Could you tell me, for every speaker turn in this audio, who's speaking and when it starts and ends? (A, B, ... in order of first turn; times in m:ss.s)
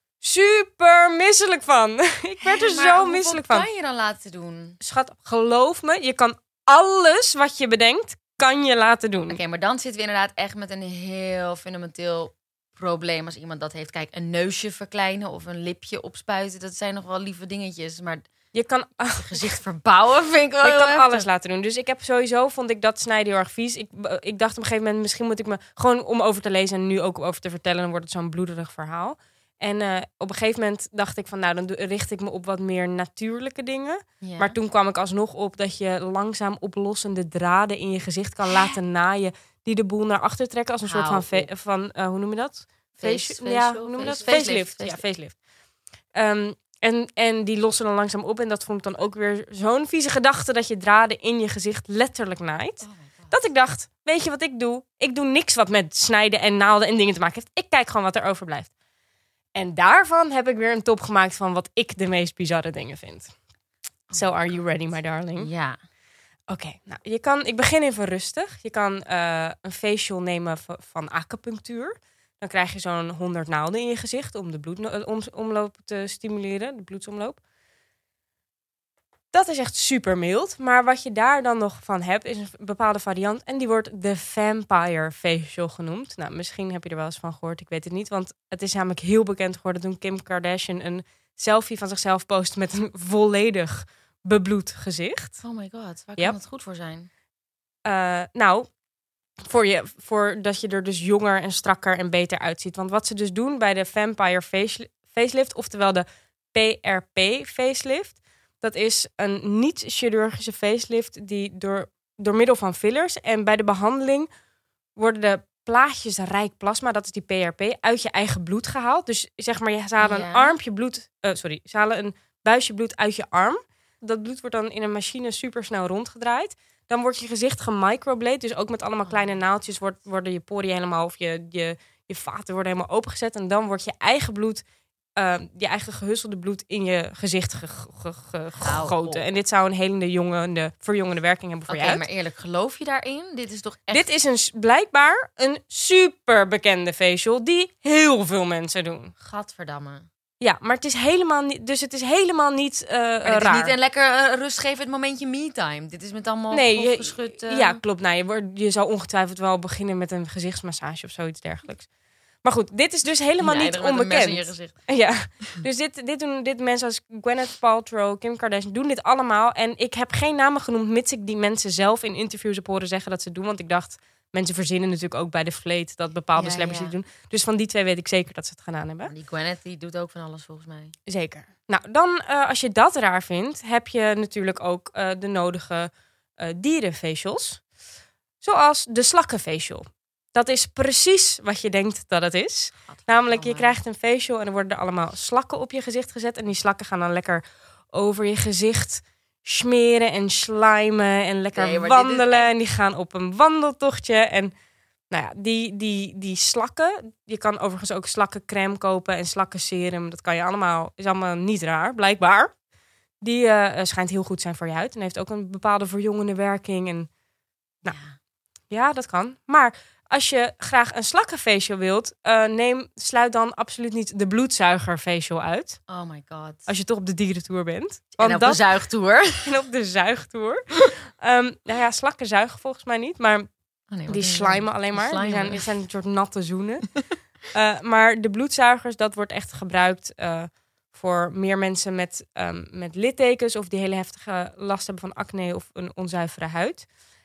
0:00.2-0:03.7 A
0:02.4-0:04.8 B
0:04.8-0:09.4 A
0:09.3-0:18.3 B
0:18.5-0:19.4 A
0:19.2-0:21.2 B
0:20.6-0:45.4 A
0:34.2-0:34.6 B
0:38.5-0:38.8 B
0:40.8-0:41.5 B
0:43.0-0:45.0 B
0:46.1-0:58.7 A
0:52.8-0:53.3 B
0:59.5-1:03.3 A
1:04.1-1:04.6 B
1:04.1-1:05.5 A
1:05.4-1:05.8 B
1:06.5-1:17.4 A
1:19.3-1:35.4 A
1:35.4-1:37.1 B
1:37.8-1:38.7 A
1:39.4-1:54.3 A
1:55.0-2:22.0 A
2:00.0-2:00.6 B
2:09.0-2:09.4 B
2:18.6-2:19.2 B
2:21.7-2:24.1 B
2:23.9-2:29.1 A
2:29.2-2:30.1 B
2:30.4-2:33.7 A
2:33.2-2:37.8 B
2:36.5-2:41.9 A
2:42.4-2:59.1 A
2:43.4-2:44.9 B
2:56.3-2:56.9 B
2:59.1-3:00.9 B
3:01.1-3:07.6 A
3:08.4-3:24.5 A
3:12.8-3:13.8 B
3:21.5-3:22.5 B
3:25.1-3:32.6 A
3:33.2-3:37.1 A
3:37.9-3:38.2 B
3:38.7-3:45.8 A
3:45.9-3:46.7 B
3:46.7-3:48.9 A
3:48.2-3:49.5 B
3:49.4-3:53.5 A
3:53.9-3:55.7 B
3:54.1-4:06.9 A